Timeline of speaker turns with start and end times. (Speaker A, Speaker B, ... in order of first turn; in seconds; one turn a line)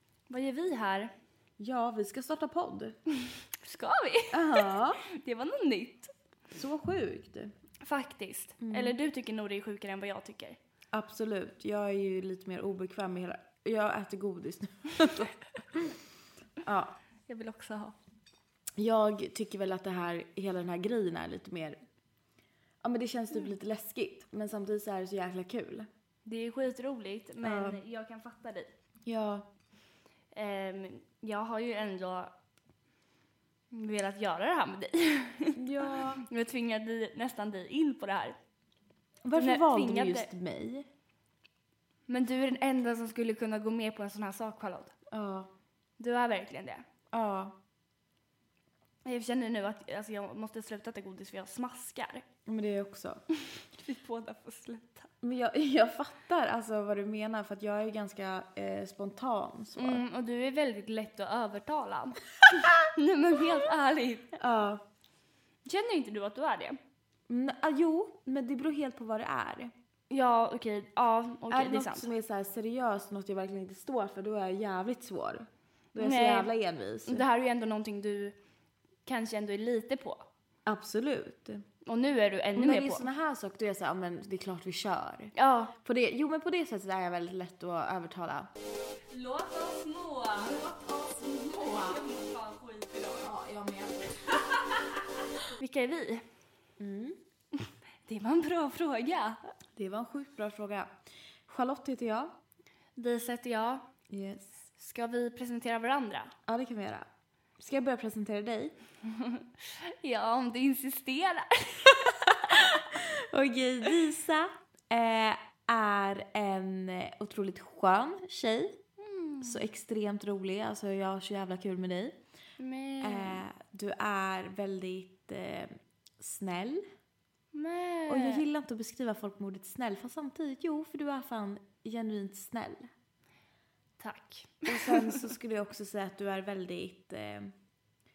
Speaker A: 0.3-1.1
Speaker B: 1.6-3.0
Speaker A: 3.2-6.1
Speaker B: 4.3-5.0
Speaker B: 6.5-7.5
Speaker A: 7.8-10.6
Speaker B: 8.6-8.9
Speaker B: 10.9-15.9
Speaker B: 16.6-16.9
Speaker A: 17.3-17.9
Speaker B: 18.8-21.8
Speaker B: 22.8-25.9
Speaker A: 26.2-28.7
Speaker B: 27.4-27.8
Speaker B: 29.0-29.4
Speaker A: 30.3-32.3
Speaker A: 33.7-38.4
Speaker B: 35.6-36.2
Speaker B: 39.2-40.9
Speaker A: 39.3-40.3
Speaker A: 42.1-44.9
Speaker B: 45.1-45.5
Speaker A: 46.0-46.8
Speaker B: 47.1-47.5
Speaker A: 49.0-52.2
Speaker B: 52.5-53.2
Speaker A: 53.5-55.1
Speaker B: 55.2-60.0
Speaker A: 59.8-64.3
Speaker B: 64.4-64.8
Speaker A: 65.6-66.8
Speaker B: 67.3-69.7
Speaker A: 70.1-72.1
Speaker B: 71.5-77.2
Speaker A: 76.0-76.5
Speaker A: 77.0-78.3
Speaker A: 79.0-80.2
Speaker B: 80.7-81.6
Speaker A: 81.8-83.1
Speaker B: 82.5-88.5
Speaker A: 85.3-85.8
Speaker A: 89.1-90.1
Speaker B: 90.2-92.1
Speaker A: 91.9-92.8
Speaker B: 92.9-94.8
Speaker A: 95.6-96.2
Speaker B: 96.8-97.2
Speaker A: 97.6-99.4
Speaker B: 99.7-102.3
Speaker A: 103.0-103.9
Speaker B: 104.1-104.7
Speaker A: 104.7-106.3
Speaker B: 106.5-107.1
Speaker B: 107.6-108.7
Speaker A: 109.0-112.7
Speaker B: 112.3-118.8
Speaker A: 119.0-119.6
Speaker B: 119.4-122.2
Speaker A: 122.6-123.4
Speaker B: 123.0-126.8
Speaker A: 127.5-128.4
Speaker B: 128.1-132.9
Speaker A: 134.0-135.3
Speaker B: 134.7-137.5